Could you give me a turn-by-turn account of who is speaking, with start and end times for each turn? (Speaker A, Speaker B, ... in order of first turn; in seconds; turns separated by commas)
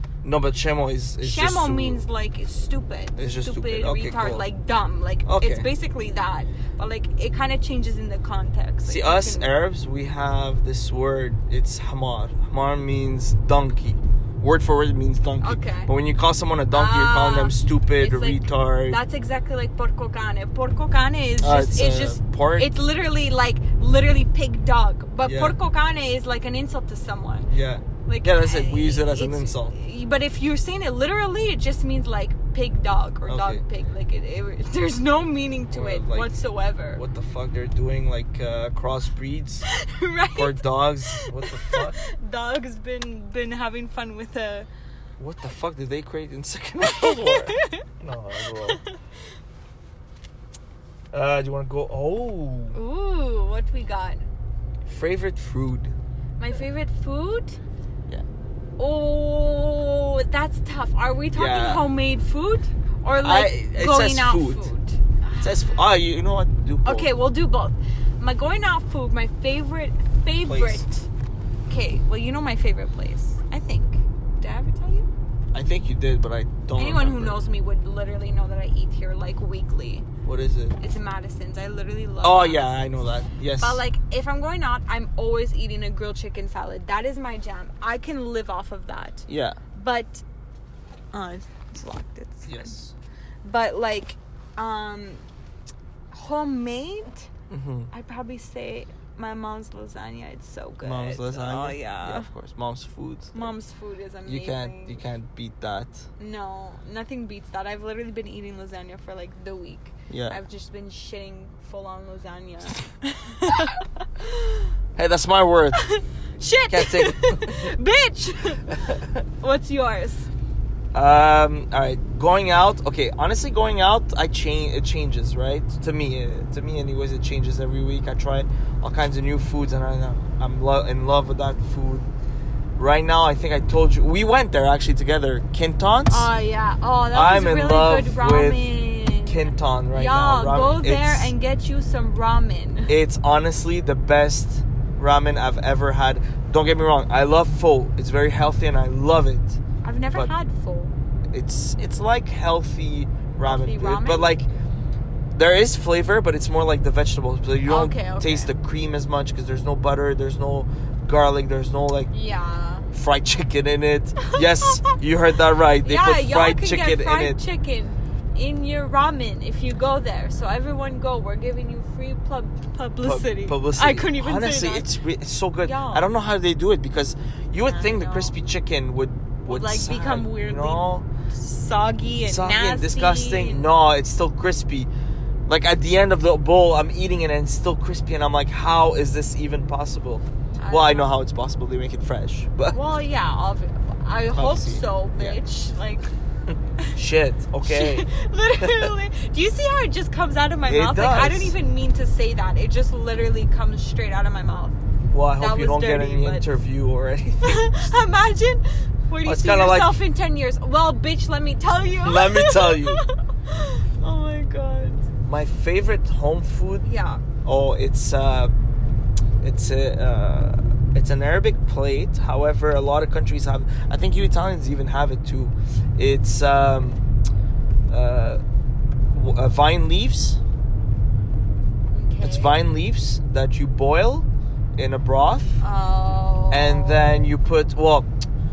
Speaker A: 0.2-2.0, Speaker B: 1.2-9.5, Speaker A: 3.2-4.4, Speaker A: 5.2-5.7, Speaker A: 8.9-19.0, Speaker B: 15.4-15.9, Speaker B: 16.7-27.5, Speaker A: 21.4-22.7, Speaker A: 25.2-25.6, Speaker A: 27.5-29.8, Speaker B: 28.1-37.0, Speaker A: 33.3-33.6, Speaker A: 35.7-36.3, Speaker A: 36.9-39.7, Speaker B: 39.7-44.7, Speaker A: 40.3-42.0, Speaker A: 45.2-48.8, Speaker B: 46.9-47.9, Speaker B: 48.4-49.0, Speaker A: 51.1-52.8, Speaker B: 52.7-54.2, Speaker A: 54.9-55.9, Speaker B: 56.4-57.6, Speaker B: 58.8-65.8, Speaker A: 61.4-61.9, Speaker A: 63.2-64.7, Speaker A: 65.4-67.1, Speaker B: 66.8-71.1, Speaker A: 70.4-70.8, Speaker B: 71.7-75.1, Speaker A: 75.5-77.4, Speaker B: 76.8-80.1, Speaker A: 80.2-80.8, Speaker B: 80.8-82.8, Speaker A: 82.2-83.8, Speaker B: 83.6-90.2, Speaker A: 89.3-89.6, Speaker B: 91.1-92.7, Speaker A: 92.5-92.9, Speaker B: 93.5-95.2, Speaker B: 96.1-97.3, Speaker A: 97.5-97.9, Speaker B: 97.9-102.3, Speaker A: 100.8-103.5, Speaker B: 103.3-105.0, Speaker A: 104.3-106.1, Speaker B: 106.2-114.7, Speaker A: 110.1-110.4, Speaker A: 115.0-115.8, Speaker B: 115.8-118.7, Speaker A: 116.7-117.6, Speaker A: 118.7-119.2, Speaker B: 119.4-120.3, Speaker A: 120.9-132.1, Speaker A: 132.8-136.3, Speaker B: 136.1-142.9, Speaker A: 137.1-138.6, Speaker A: 139.2-141.3, Speaker A: 142.9-149.6, Speaker B: 149.8-150.9, Speaker A: 151.3-154.5, Speaker B: 153.4-154.3, Speaker A: 155.3-162.1, Speaker B: 157.7-158.5, Speaker B: 162.1-162.9, Speaker A: 162.9-167.4, Speaker B: 164.3-164.9, Speaker B: 165.8-174.9, Speaker A: 173.0-181.1, Speaker B: 175.6-176.1, Speaker B: 177.6-178.3, Speaker B: 179.5-183.7, Speaker A: 182.2-184.9, Speaker A: 185.5-192.8, Speaker B: 190.6-191.1, Speaker B: 192.7-196.1, Speaker A: 194.3-195.4, Speaker A: 196.9-198.1, Speaker B: 197.7-204.8, Speaker A: 198.6-198.9, Speaker A: 200.7-201.5, Speaker A: 205.1-207.9, Speaker B: 205.4-206.5, Speaker B: 207.4-215.1, Speaker A: 209.2-210.0, Speaker A: 212.0-213.0, Speaker A: 215.3-216.9, Speaker B: 216.8-217.2, Speaker A: 217.4-218.5, Speaker A: 219.4-227.0, Speaker A: 227.9-228.4, Speaker A: 229.1-230.4, Speaker B: 231.9-232.6, Speaker A: 232.2-235.6, Speaker B: 235.6-237.3, Speaker A: 236.5-238.1